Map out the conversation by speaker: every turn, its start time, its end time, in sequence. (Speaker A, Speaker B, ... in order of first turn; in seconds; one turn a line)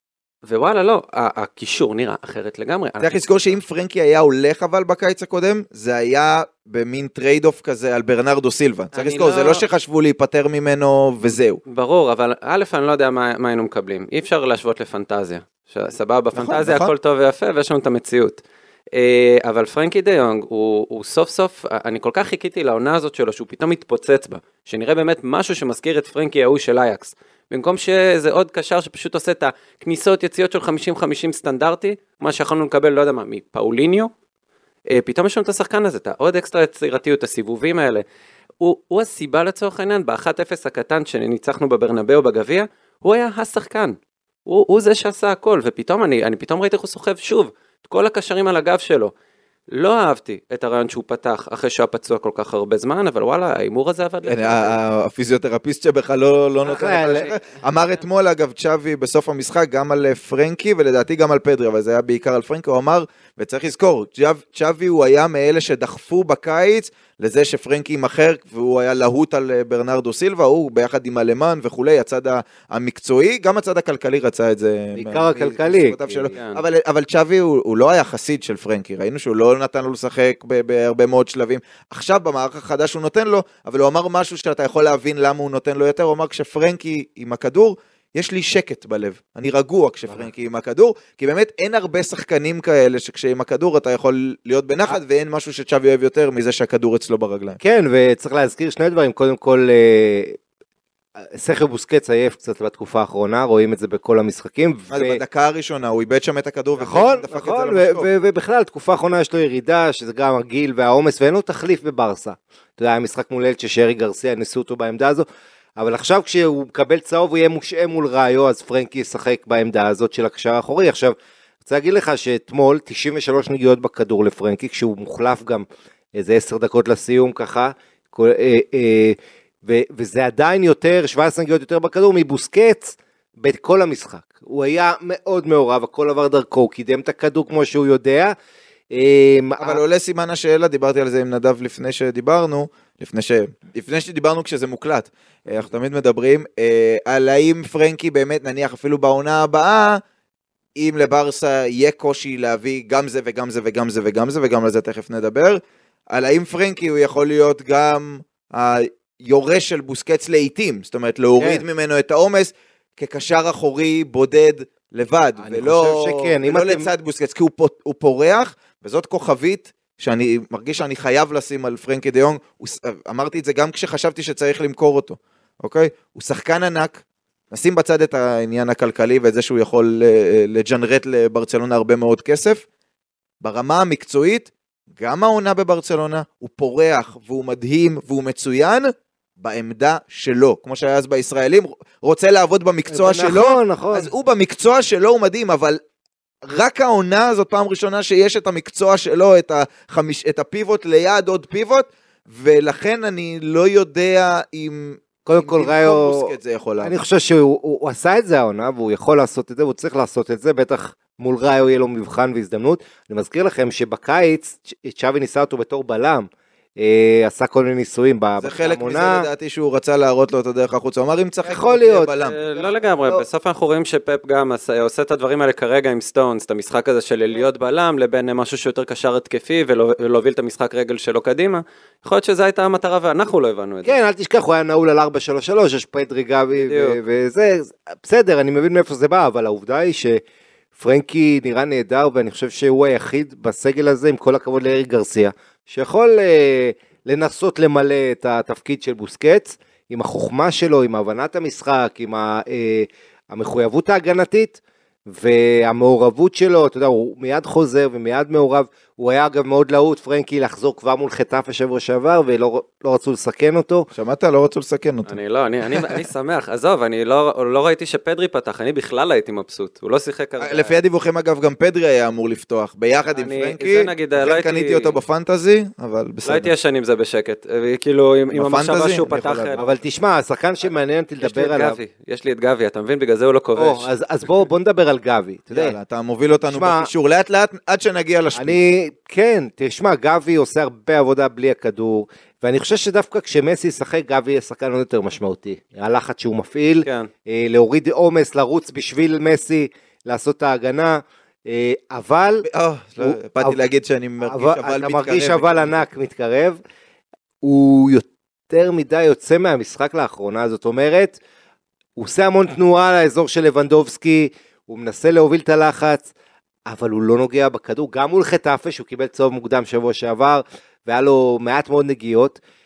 Speaker A: 0.4-3.2
Speaker B: 3.0-11.6
Speaker A: 8.9-9.6
Speaker A: 11.7-18.4
Speaker B: 16.3-16.9
Speaker A: 18.9-34.1
Speaker A: 34.9-38.0
Speaker A: 38.6-49.1
Speaker A: 49.7-54.8
Speaker B: 54.2-97.6
Speaker C: 56.6-57.3
Speaker C: 74.9-76.3
Speaker A: 76.3-76.6
Speaker C: 97.6-100.4
Speaker C: 101.2-105.2
Speaker B: 104.9-108.1
Speaker C: 106.8-115.2
Speaker C: 115.8-125.7
Speaker C: 126.2-138.3
Speaker C: 138.9-139.8
Speaker B: 139.6-150.0
Speaker B: 150.8-182.6
Speaker C: 161.4-161.6
Speaker C: 165.4-166.9
Speaker B: 183.4-195.8
Speaker C: 192.9-194.1
Speaker B: 196.4-206.9
Speaker C: 205.2-206.3
Speaker C: 206.8-219.3
Speaker B: 218.4-222.3
Speaker C: 221.4-223.2
Speaker A: 222.2-234.0
Speaker C: 233.8-240.2
Speaker A: 236.6-237.0
Speaker C: 240.8-263.9
Speaker B: 263.9-265.1
Speaker A: 265.1-270.7
Speaker B: 270.4-276.5
Speaker A: 273.1-274.9
Speaker A: 276.2-279.6
Speaker B: 278.3-279.6
Speaker C: 279.6-281.8
Speaker A: 281.2-283.9
Speaker C: 283.6-285.8
Speaker B: 285.5-288.6
Speaker C: 286.5-286.9
Speaker C: 288.4-302.4
Speaker B: 302.4-305.8
Speaker C: 303.0-303.6
Speaker C: 304.2-306.6
Speaker C: 307.4-311.2
Speaker C: 312.0-316.1
Speaker C: 316.7-322.4